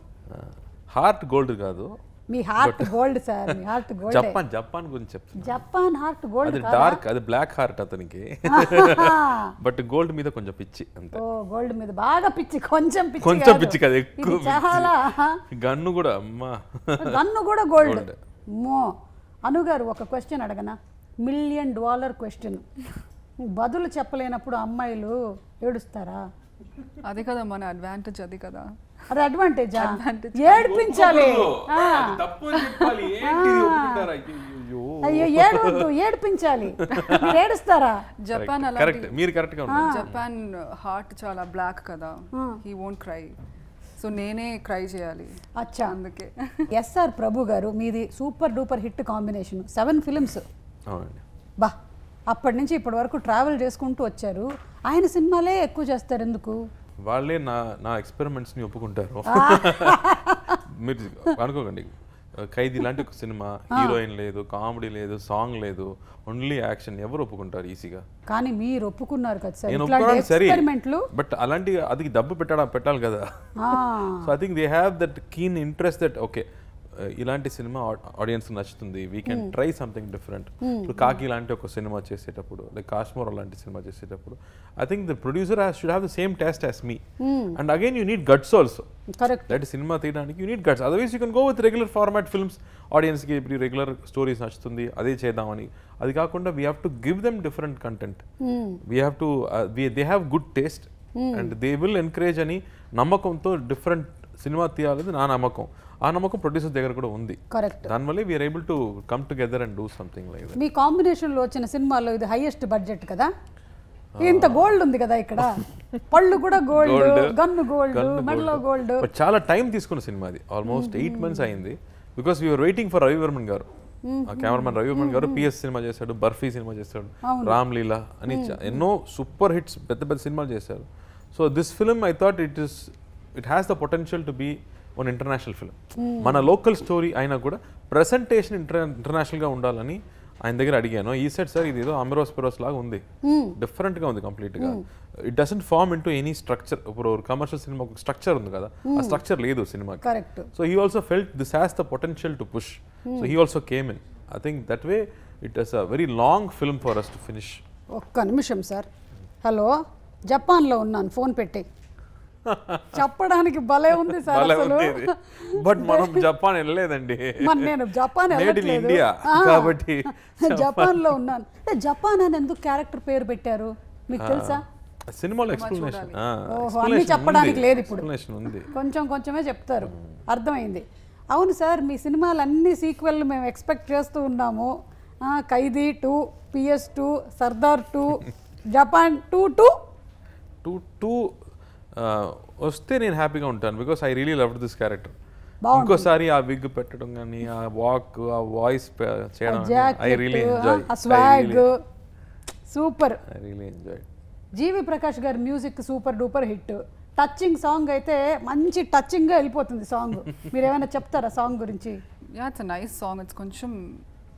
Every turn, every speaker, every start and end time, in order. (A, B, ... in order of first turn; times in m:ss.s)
0:00.3-0:01.9 A
0:02.3-0:04.4 B
0:02.6-0:03.0 A
0:03.5-0:05.6 A
0:05.4-0:07.0 B
0:06.4-0:11.2 A
0:08.5-0:09.5 B
0:11.1-0:15.4 B
0:13.2-0:14.9 A
0:15.5-0:17.2 A
0:17.0-0:18.1 B
0:17.8-0:18.2 A
0:18.6-0:18.9 B
0:19.4-0:22.7 B
0:23.4-0:26.2 B
0:27.0-0:28.7 C
0:29.1-0:32.2 B
0:29.8-0:31.3 C
0:30.5-0:35.9 A
0:32.6-0:33.0 C
0:33.2-0:34.1 B
0:35.0-0:38.0 B
0:36.8-0:37.4 A
0:38.2-0:39.2 C
0:38.3-0:40.2 A
0:39.7-0:40.0 B
0:39.9-0:43.4 C
0:42.3-0:42.6 B
0:44.0-0:46.7 C
0:45.6-0:45.9 B
0:46.7-0:50.4 B
0:50.9-0:51.2 A
0:52.3-0:56.6 B
0:57.0-1:08.0 A
0:59.3-1:00.6 B
1:08.3-1:11.1 B
1:09.7-1:27.0 A
1:13.6-1:14.3 B
1:19.3-1:19.5 B
1:20.6-1:21.2 B
1:27.2-1:27.6 B
1:27.5-1:28.9 A
1:29.1-1:29.6 B
1:29.5-1:38.2 A
1:38.4-1:38.8 B
1:38.8-1:50.6 A
1:41.2-1:41.5 B
1:47.5-1:47.9 B
1:50.6-1:53.3 B
1:54.2-1:54.8 A
1:54.2-1:59.1 B
1:56.0-2:03.7 A
2:00.6-2:01.5 B
2:04.1-2:05.4 B
2:04.2-2:23.0 A
2:07.2-2:07.6 B
2:08.3-2:08.8 B
2:16.0-2:16.5 B
2:23.2-2:23.6 B
2:23.6-2:37.6 A
2:28.9-2:29.2 B
2:30.0-2:30.5 B
2:33.1-2:33.4 B
2:37.9-2:38.9 B
2:39.4-2:39.8 B
2:40.3-2:41.6 B
2:42.4-2:43.0 A
2:42.9-2:46.3 B
2:43.9-2:47.8 A
2:47.4-2:54.6 B
2:48.3-2:51.2 A
2:54.2-2:58.7 A
2:55.5-2:56.2 C
2:56.5-2:58.1 B
2:58.7-3:04.7 B
3:05.2-3:09.7 B
3:10.6-3:11.4 A
3:11.9-3:15.1 A
3:15.6-3:16.1 B
3:15.7-3:21.7 A
3:19.5-3:21.8 B
3:22.7-3:23.2 B
3:23.2-3:24.1 A
3:24.6-3:32.0 B
3:32.3-3:34.0 C